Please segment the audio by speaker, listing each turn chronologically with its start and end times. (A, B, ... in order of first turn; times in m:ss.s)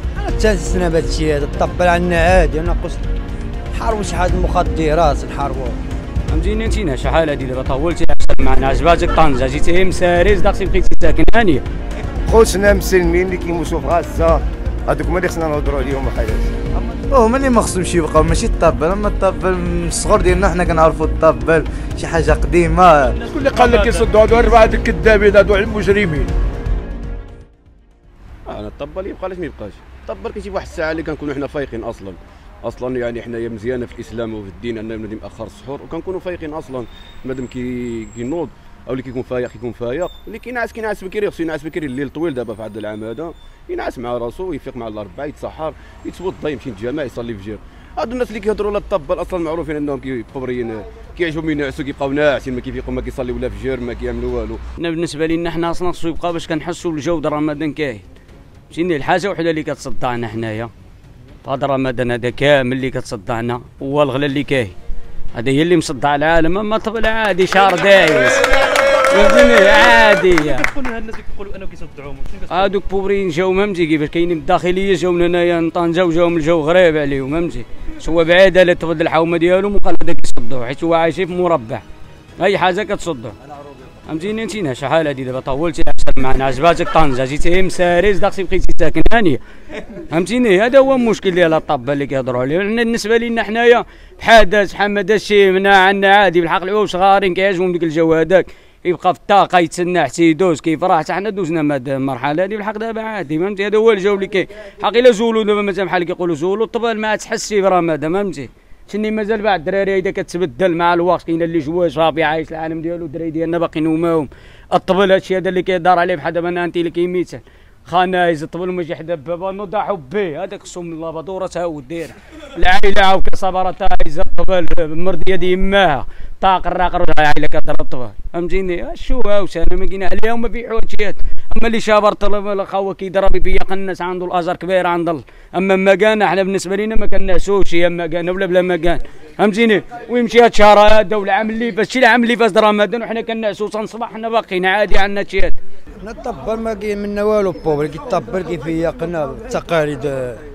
0:00.2-0:03.1 A
0:03.8-0:05.8 A
0:06.3-0:11.6 B
0:12.3-0:16.5 C
0:17.1-0:23.2 D
0:23.3-0:26.3 E
0:23.5-0:24.1 F
0:28.5-0:54.6 G
0:54.8-0:58.0 B
0:58.7-1:00.7 B
1:01.4-1:04.7 B
1:05.4-1:08.4 B
1:09.1-1:10.7 B
1:10.4-1:12.7 F
1:12.5-1:21.8 B
1:22.4-1:23.4 B
1:24.1-1:29.4 B
1:30.1-2:25.6 B
2:26.0-2:30.4 A